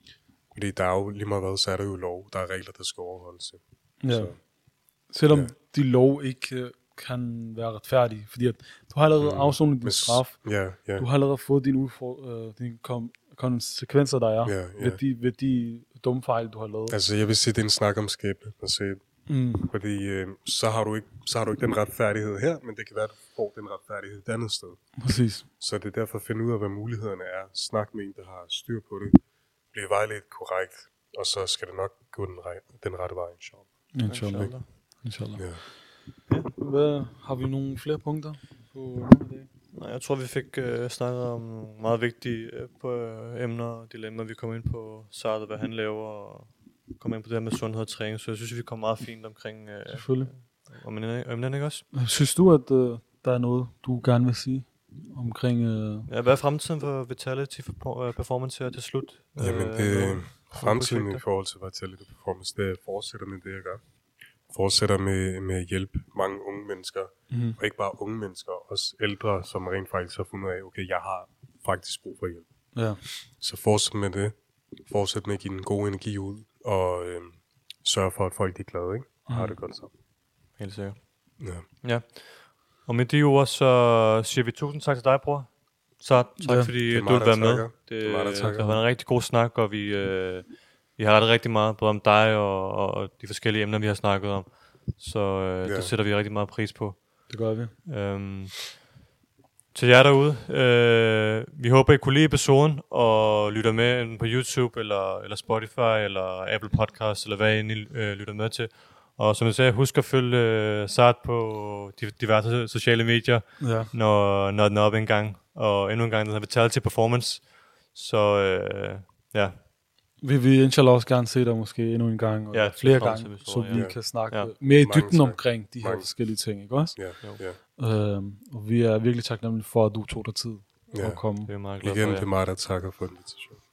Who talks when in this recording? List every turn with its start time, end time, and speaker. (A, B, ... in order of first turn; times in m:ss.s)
0:00.5-0:04.5 A
0:04.0-0:17.0 B
0:09.2-0:11.1 A
0:14.4-0:15.0 A
0:16.9-0:29.2 A
0:19.3-0:19.7 B
0:25.0-0:25.5 B
0:29.7-0:34.6 A
0:33.9-0:35.8 B
0:34.0-0:35.0 C
0:35.3-0:35.6 A
0:36.3-0:36.5 C
0:36.6-0:39.5 B
0:39.7-0:51.9 C
0:49.9-0:50.3 B
0:51.9-0:56.1 B
0:56.1-1:01.2 C
0:59.4-1:03.8 A
1:04.5-1:19.9 A
1:07.3-1:07.6 B
1:12.7-1:13.0 B
1:19.3-1:19.6 B
1:20.6-1:38.9 C
1:21.4-1:21.6 A
1:26.4-1:26.7 B
1:26.8-1:28.8 A
1:35.6-1:35.9 A
1:37.3-1:37.8 B
1:39.7-1:59.6 C
1:53.6-1:53.9 B
2:00.2-2:11.5 B
2:02.5-2:04.5 C
2:03.7-2:07.6 A
2:10.9-2:13.6 A
2:11.5-2:12.3 C